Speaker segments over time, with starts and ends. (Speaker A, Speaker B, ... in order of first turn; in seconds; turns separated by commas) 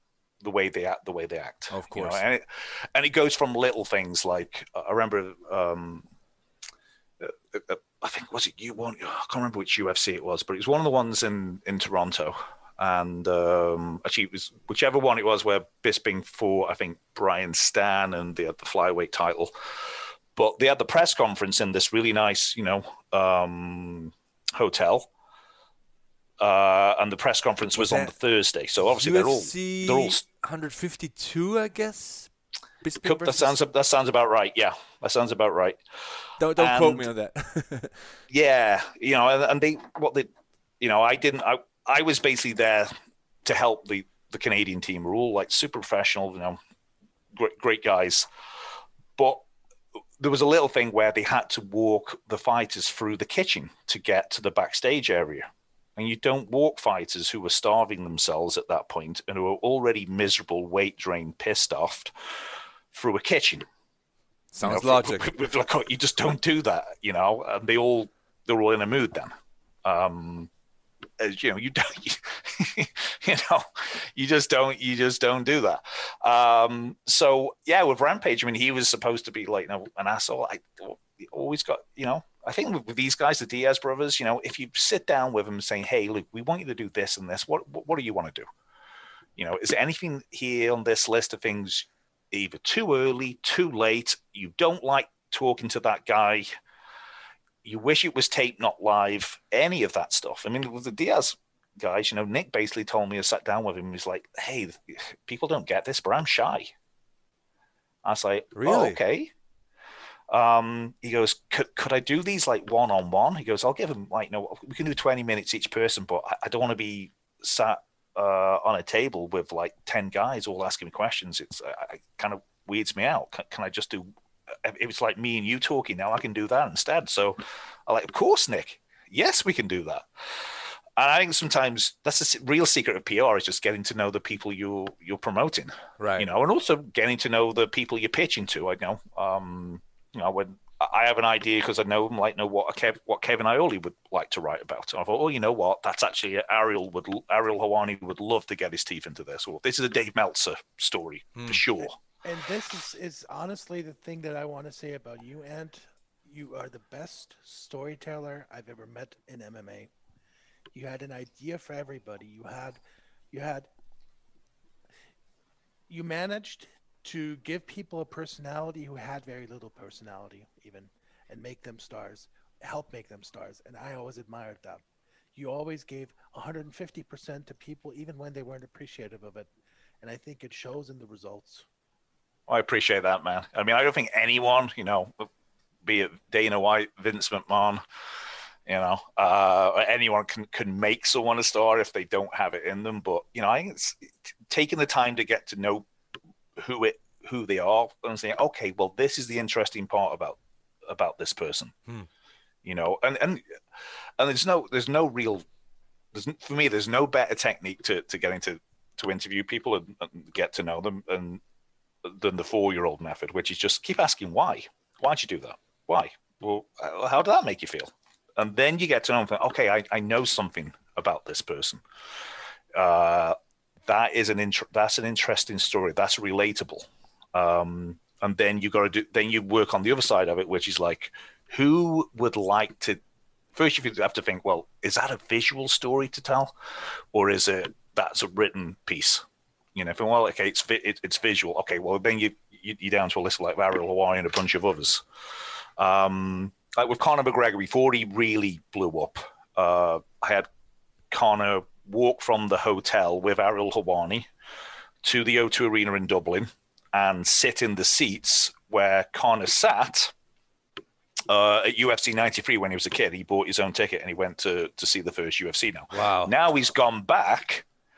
Speaker A: 0.4-6.0, Speaker B: 1.7-2.2, Speaker A: 7.2-19.5, Speaker A: 20.4-25.1, Speaker A: 26.4-30.2, Speaker B: 27.8-28.1, Speaker B: 28.9-32.3, Speaker B: 32.8-33.5, Speaker A: 33.0-35.8, Speaker B: 36.4-38.0, Speaker A: 36.6-37.1, Speaker A: 38.3-40.3, Speaker A: 40.8-42.9, Speaker A: 43.4-46.6, Speaker A: 47.3-48.3, Speaker A: 49.2-49.4, Speaker A: 50.2-62.1, Speaker A: 62.9-63.6, Speaker B: 64.5-65.3, Speaker A: 64.6-69.3, Speaker A: 69.8-70.5, Speaker A: 71.2-88.5, Speaker A: 89.4-96.5, Speaker A: 97.6-106.7, Speaker A: 108.0-109.3, Speaker B: 108.6-109.0, Speaker A: 110.3-124.1, Speaker A: 124.6-130.1, Speaker A: 131.0-152.0, Speaker B: 136.0-136.3, Speaker B: 151.4-151.6, Speaker C: 152.2-159.9, Speaker C: 160.7-162.8, Speaker C: 163.3-163.7, Speaker C: 165.9-174.8, Speaker C: 175.3-179.5, Speaker C: 180.0-181.7, Speaker A: 182.5-185.3, Speaker A: 185.8-187.8, Speaker A: 188.7-195.8, Speaker A: 196.6-201.8, Speaker A: 202.6-203.4, Speaker A: 204.2-205.4, Speaker A: 206.1-211.4, Speaker A: 212.0-221.8, Speaker A: 222.8-223.4, Speaker A: 223.9-233.0, Speaker A: 233.6-236.5, Speaker A: 237.1-239.2, Speaker A: 239.8-245.0, Speaker A: 245.8-250.5, Speaker A: 251.1-254.3, Speaker A: 255.0-260.1, Speaker A: 261.3-267.6, Speaker B: 265.9-266.3